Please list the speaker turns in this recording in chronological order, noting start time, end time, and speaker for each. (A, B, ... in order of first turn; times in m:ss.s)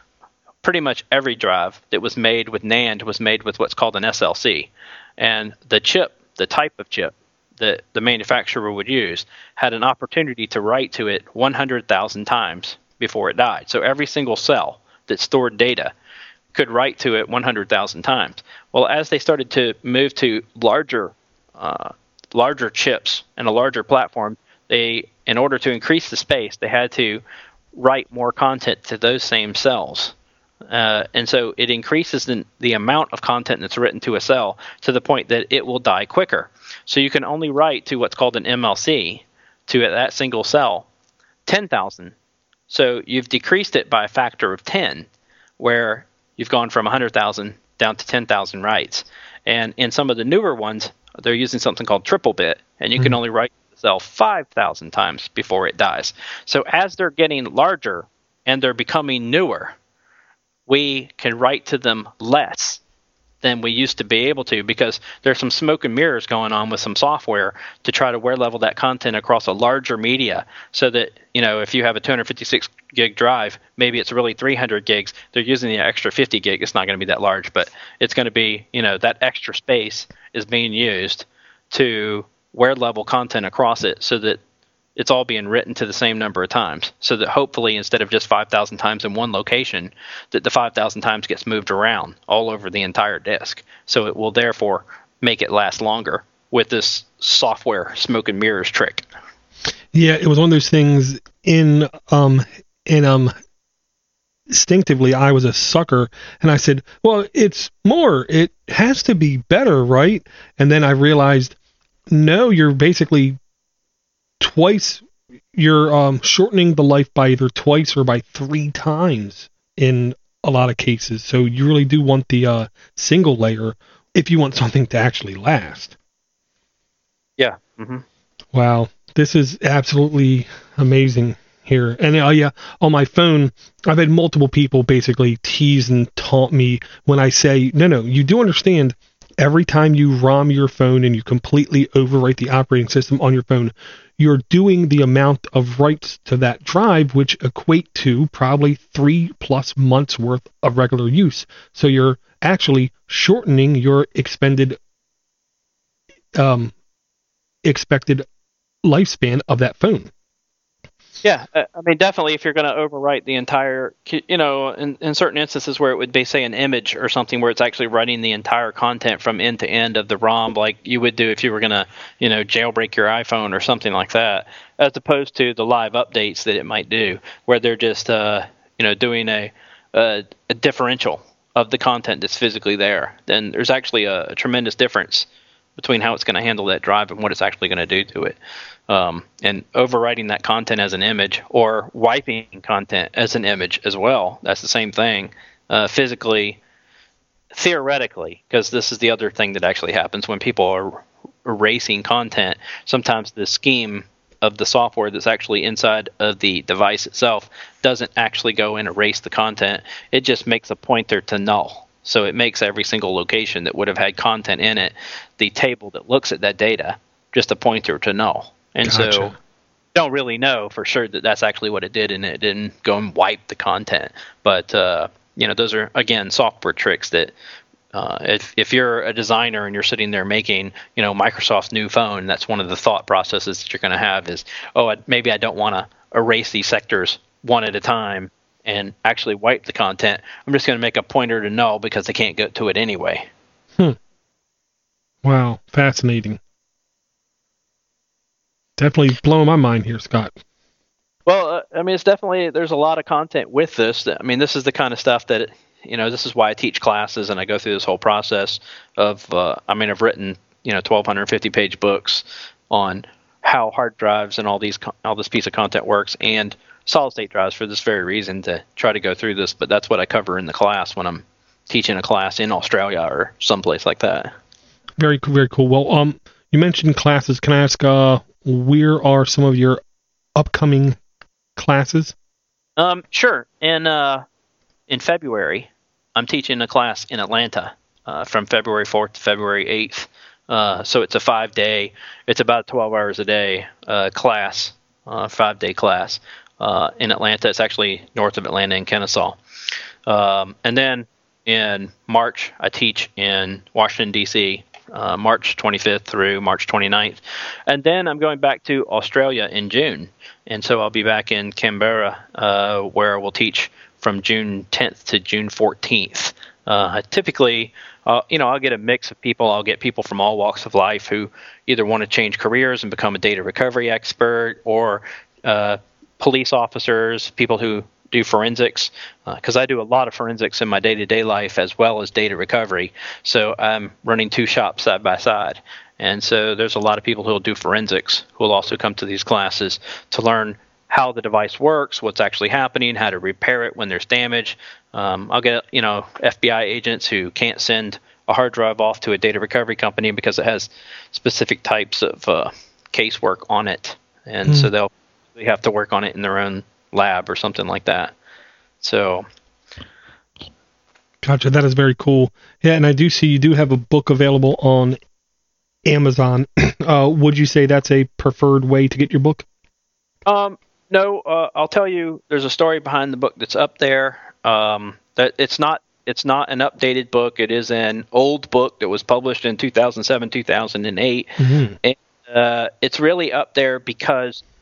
0:00.6-0:15.9 A
0:16.5-0:27.2 A
0:27.8-0:30.1 A
0:30.7-0:40.9 A
0:41.5-0:42.1 A
0:42.7-0:45.1 A
0:45.6-0:59.8 A
1:00.7-1:02.8 A
1:03.4-1:24.4 A
1:25.0-1:39.1 A
1:39.9-1:43.3 B
1:44.5-1:51.6 B
1:52.1-1:53.4 B
1:54.4-2:06.0 B
2:07.4-2:08.0 A
2:08.5-2:34.8 B
2:36.4-2:36.7 B
2:37.6-2:38.3 B
2:38.8-2:40.1 B
2:41.2-3:08.4 A
3:08.9-3:16.6 A
3:17.5-3:39.3 A
3:38.8-3:39.4 B
3:40.0-3:47.3 A
3:47.9-4:03.3 A
4:05.2-4:06.4 B
4:08.8-4:10.3 B
4:11.3-4:34.3 A
4:35.0-4:39.8 B
4:40.4-4:41.0 B
4:41.6-4:42.2 B
4:42.8-4:44.2 A
4:44.9-4:59.4 A
5:00.1-5:58.1 A
5:58.8-5:59.2 A
6:01.2-6:05.0 B
6:05.8-6:09.4 B
6:10.3-6:24.4 A
6:21.4-6:21.8 B